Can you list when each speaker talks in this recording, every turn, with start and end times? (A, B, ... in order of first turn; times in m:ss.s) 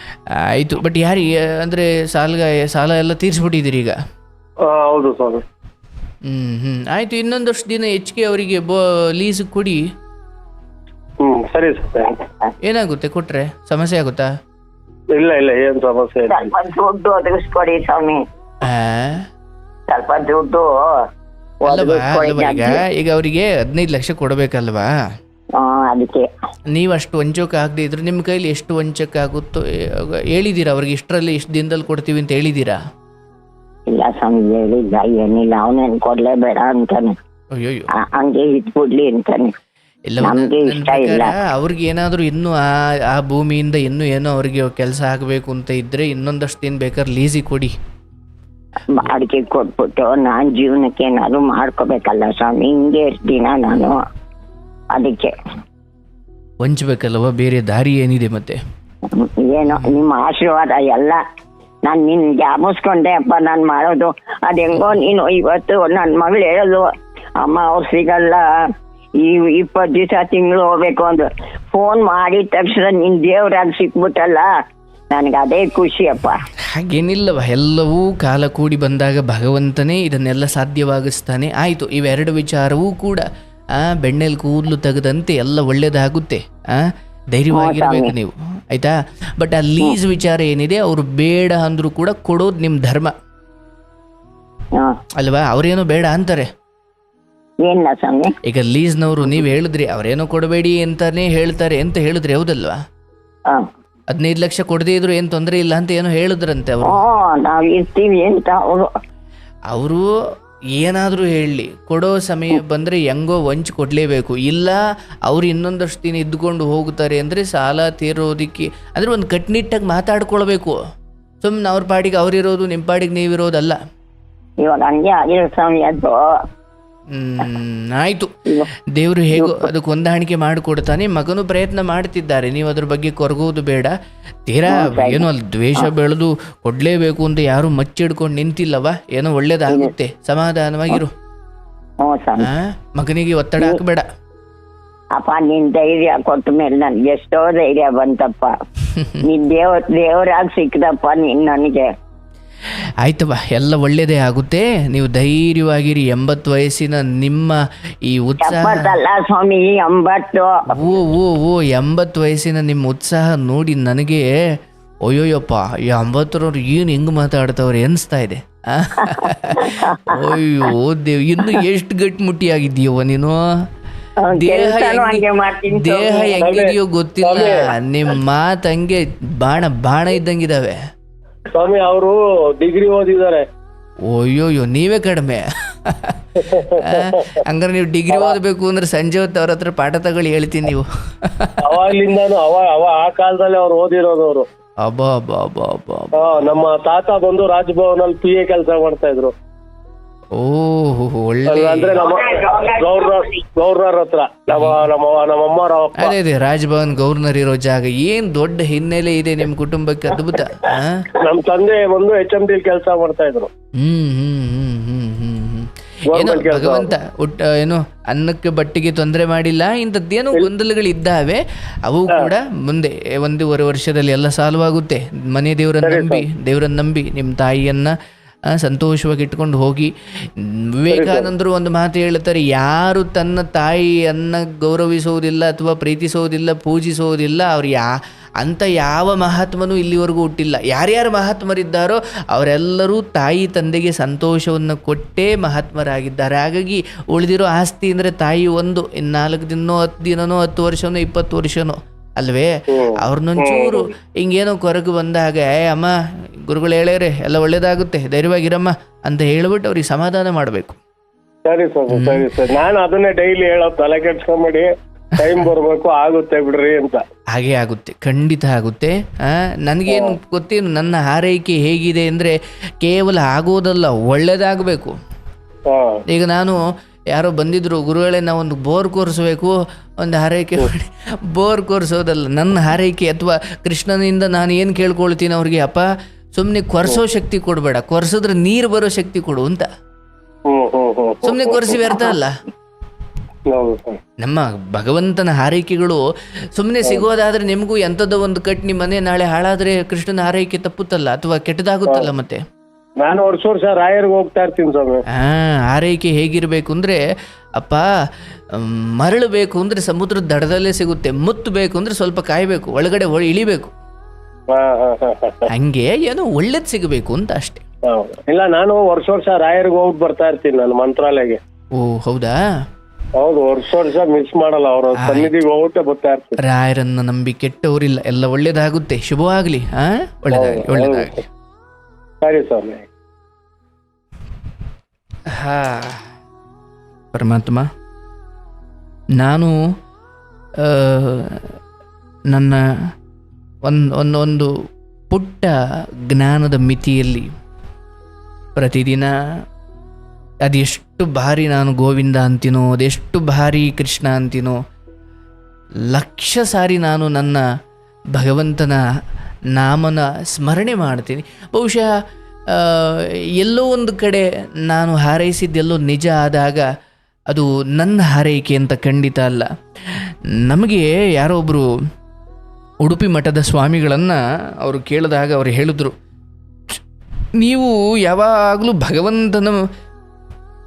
0:00.5-0:04.0 A
0:04.6-0:05.4 B
0:06.2-0:09.8 A
0:11.2-0:12.2 B
0:12.6-0:14.3 A
0:15.1-0:16.5 B
0:16.3-0:18.2 C
0:18.6-0:19.3 A
0:19.9-0:21.1 C
0:21.6-0:22.8 C
0:21.7-0:24.9 A
0:25.5-0:26.3 C
0:26.7-0:32.8 A
0:33.9-0:37.2 C
0:37.5-0:37.9 A
0:38.0-0:39.5 C
0:40.1-0:47.7 A
0:40.2-0:41.3 C
0:48.9-0:54.0 C
0:54.9-0:55.4 C
0:56.6-0:58.6 A
0:59.1-1:01.2 C
1:01.8-1:14.5 C
1:15.1-1:16.4 C
1:16.7-1:33.1 A
1:27.5-1:28.1 C
1:34.7-1:35.0 C
1:35.2-1:36.5 A
1:37.6-1:38.4 C
1:38.4-1:42.8 A
1:44.1-1:47.0 A
1:46.8-1:48.9 C
1:49.7-1:50.0 A
1:50.8-2:00.8 A
2:01.4-2:03.8 A
2:04.6-2:06.4 C
2:07.1-2:08.3 A
2:08.9-2:13.9 A
2:09.3-2:09.7 C
2:14.5-2:21.1 A
2:14.7-2:15.3 C
2:22.0-2:22.5 C
2:22.4-2:24.1 A
2:25.1-2:28.6 C
2:28.9-2:29.2 A
2:29.2-2:31.9 C
2:33.0-2:39.0 A
2:38.4-2:41.0 C
2:40.7-2:44.2 A
2:45.0-2:53.4 A
2:49.0-2:50.4 C
2:54.2-2:56.4 C
2:54.3-3:00.8 A
2:56.4-2:57.6 B
3:01.5-3:03.4 B
3:04.1-3:11.9 A
3:06.4-3:07.4 B
3:11.6-3:14.5 B
3:14.8-3:16.6 A
3:16.2-3:19.3 B
3:20.3-3:22.0 A
3:21.5-3:26.1 B
3:22.4-3:22.7 C
3:24.5-3:24.8 A
3:26.0-3:31.1 A
3:31.1-3:33.5 B
3:33.8-3:47.9 A
3:36.1-3:36.9 B
3:45.8-3:46.3 B
3:48.5-4:15.9 A
3:50.9-3:51.3 B
4:12.7-4:13.9 B
4:16.5-4:20.8 A
4:21.4-4:27.0 B
4:21.9-4:22.3 A
4:27.3-4:34.9 A
4:29.9-4:30.2 B
4:35.7-4:36.0 B
4:36.1-4:36.6 A
4:37.1-4:49.7 A
4:50.5-4:51.9 B
4:51.2-4:52.4 A
4:53.5-4:54.0 B
4:54.2-4:56.0 A
4:56.5-5:02.4 A
5:01.8-5:02.1 B
5:03.0-5:05.0 B
5:05.1-5:07.0 A
5:07.6-5:07.9 A
5:08.5-5:13.7 A
5:14.5-5:15.5 B
5:15.5-5:17.6 A
5:17.8-5:21.4 B
5:21.8-5:22.4 A
5:23.2-5:26.4 B
5:25.0-5:25.3 A
5:26.4-5:31.2 A
5:30.3-5:31.2 B
5:32.2-5:32.9 B
5:35.3-5:36.1 A
5:37.1-5:37.6 A
5:39.2-5:39.5 A
5:40.6-5:41.4 A
5:42.3-5:42.6 A
5:43.6-5:44.5 A
5:45.1-5:45.5 A
5:46.1-5:47.3 A
5:48.6-5:49.1 A
5:50.4-5:54.6 A
5:55.9-5:57.4 A
5:58.1-5:58.8 A
5:59.5-6:01.9 A
6:02.5-6:06.7 A
6:07.3-6:10.0 A
6:10.5-6:11.6 A
6:12.8-6:15.9 A
6:17.4-6:19.6 A